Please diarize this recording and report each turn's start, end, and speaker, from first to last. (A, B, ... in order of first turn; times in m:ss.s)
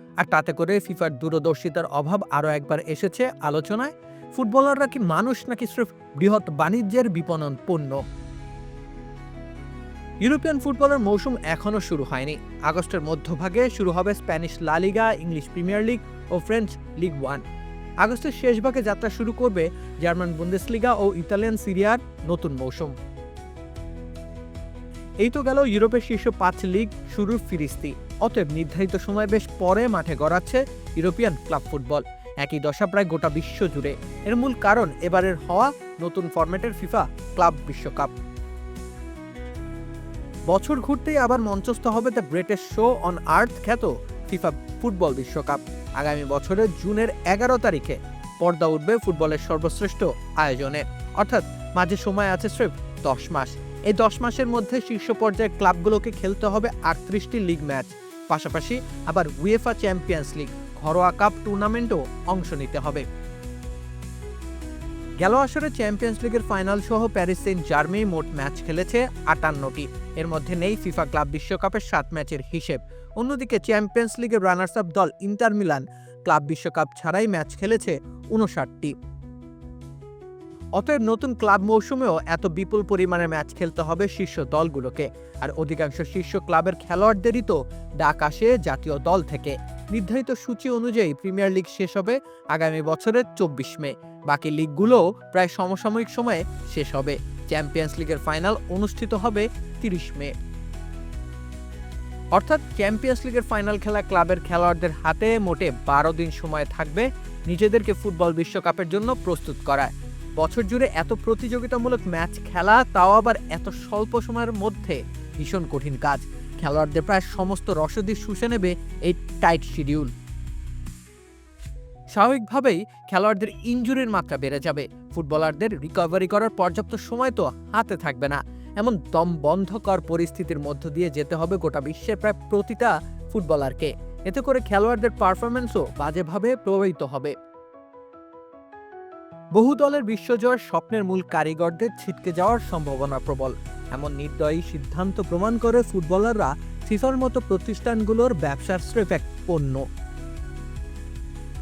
0:00.2-0:08.0 A
0:10.2-0:17.4 A
0:18.0-0:22.9 A
0:25.2-0:38.1 A
0:40.5-1:03.0 A
1:05.2-1:18.9 A
1:20.8-1:40.3 A
1:42.3-2:00.1 A
2:02.1-2:17.3 A
2:19.6-2:29.8 A